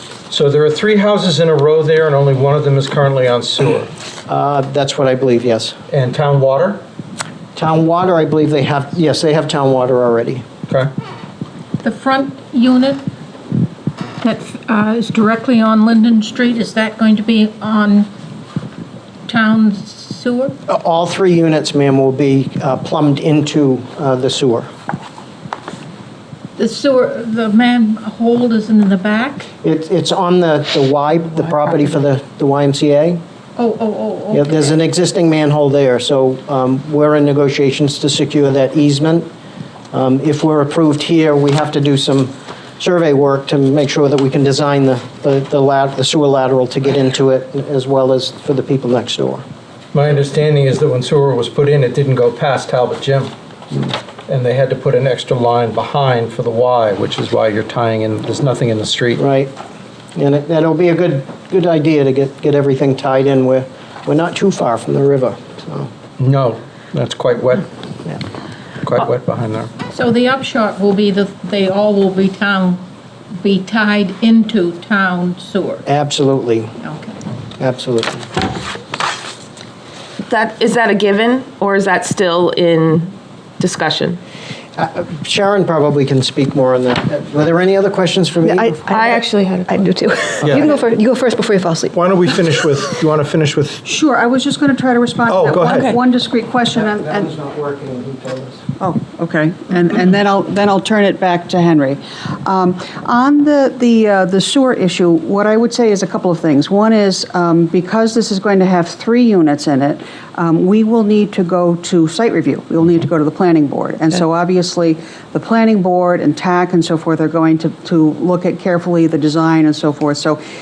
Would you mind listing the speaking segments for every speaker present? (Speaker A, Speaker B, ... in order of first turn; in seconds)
Speaker A: 0.3-3.9, 5.9-6.8, 49.9-53.3, 54.3-59.2, 66.2-67.7, 68.8-69.7, 90.4-90.7, 91.9-93.8, 95.3-95.9
Speaker B: 4.3-5.8, 7.6-10.4, 20.7-24.7, 29.6-33.2, 34.3-39.3, 39.9-49.4, 59.2-59.5, 60.2-65.9, 75.9-76.7, 77.6-78.3, 84.8-88.8, 96.7-98.6
Speaker C: 11.8-13.0, 14.2-18.1, 19.3-20.6, 26.6-29.5, 33.6-34.7, 69.9-72.8, 73.4-75.8, 76.8-77.1
Speaker D: 80.3-84.2, 88.9-89.9
Speaker E: 88.4-92.0
Speaker F: 93.8-97.3, 98.8-120.4